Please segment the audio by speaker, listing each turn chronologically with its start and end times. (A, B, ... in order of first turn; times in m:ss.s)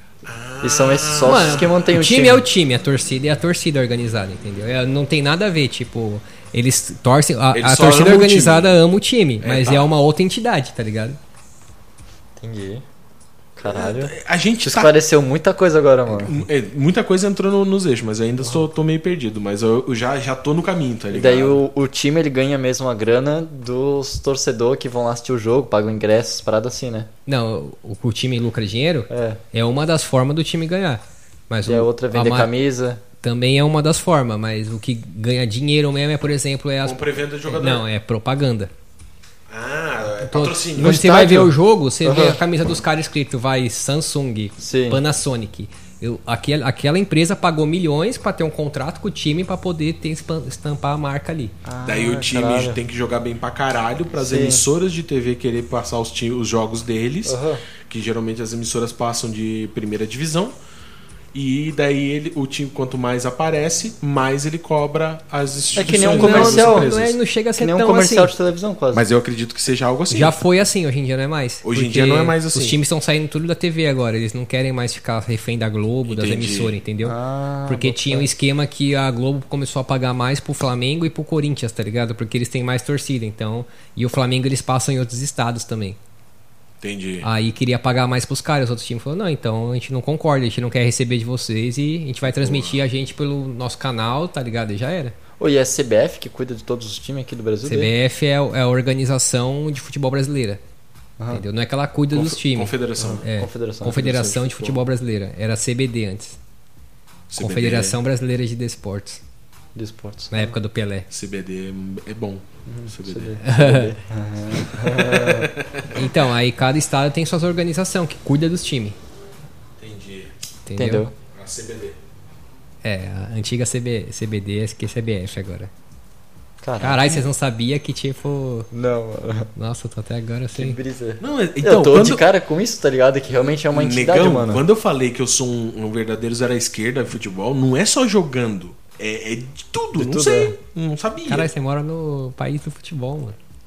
0:00.2-0:01.9 A
0:00.6-0:02.4 B
0:01.2-0:11.2 C
0:07.5-0:08.8 A
0:09.4-0:09.9 A
0:12.4-0:12.8 B
0:13.6-0:16.4 B
0:13.6-0:14.9 A
0:16.1-0:21.6 A
0:18.4-0:18.7 B
0:21.1-0:27.1 B
0:27.3-0:32.5 C
0:29.1-0:29.4 B
0:31.6-0:33.0 B
0:33.2-0:38.7 C
0:36.8-0:37.8 A
0:39.5-0:41.0 A
0:40.2-0:51.5 C
0:40.8-0:42.4 B
0:44.6-0:45.0 B
0:51.6-0:52.8 B
0:51.8-1:00.5 A
0:54.1-0:54.6 B
0:57.2-0:57.6 B
1:01.3-1:07.2 A
1:05.7-1:06.9 B
1:06.0-1:08.3 C
1:07.6-1:09.1 B
1:08.9-1:10.4 A
1:10.1-1:17.2 C
1:11.6-1:12.8 A
1:16.1-1:16.7 A
1:17.0-1:18.3 B
1:17.7-1:26.0 C
1:26.8-1:27.3 A
1:27.2-1:35.1 C
1:32.2-1:32.8 A
1:35.4-1:37.9 B
1:37.6-1:40.6 C
1:41.2-1:41.4 B
1:41.3-1:42.7 C
1:42.1-1:43.2 A
1:43.0-1:44.0 B
1:43.2-1:46.4 C
1:43.8-1:44.8 A
1:47.3-1:48.0 A
1:47.4-1:49.2 C
1:49.7-1:50.6 B
1:50.3-1:51.1 C
1:51.1-1:53.4 A
1:52.7-1:55.5 B
1:53.4-1:53.9 C
1:54.6-1:56.2 A
1:55.9-1:59.0 C
1:59.8-2:00.3 A
2:00.6-2:01.1 C
2:00.8-2:01.1 B
2:01.3-2:02.0 A
2:02.8-2:05.7 C
2:06.6-2:07.2 B
2:06.8-2:08.7 C
2:08.7-2:09.5 B
2:09.5-2:10.8 C
2:10.5-2:14.6 B
2:11.2-2:12.2 A
2:13.7-2:21.5 A
2:20.0-2:20.6 B
2:21.3-2:23.4 C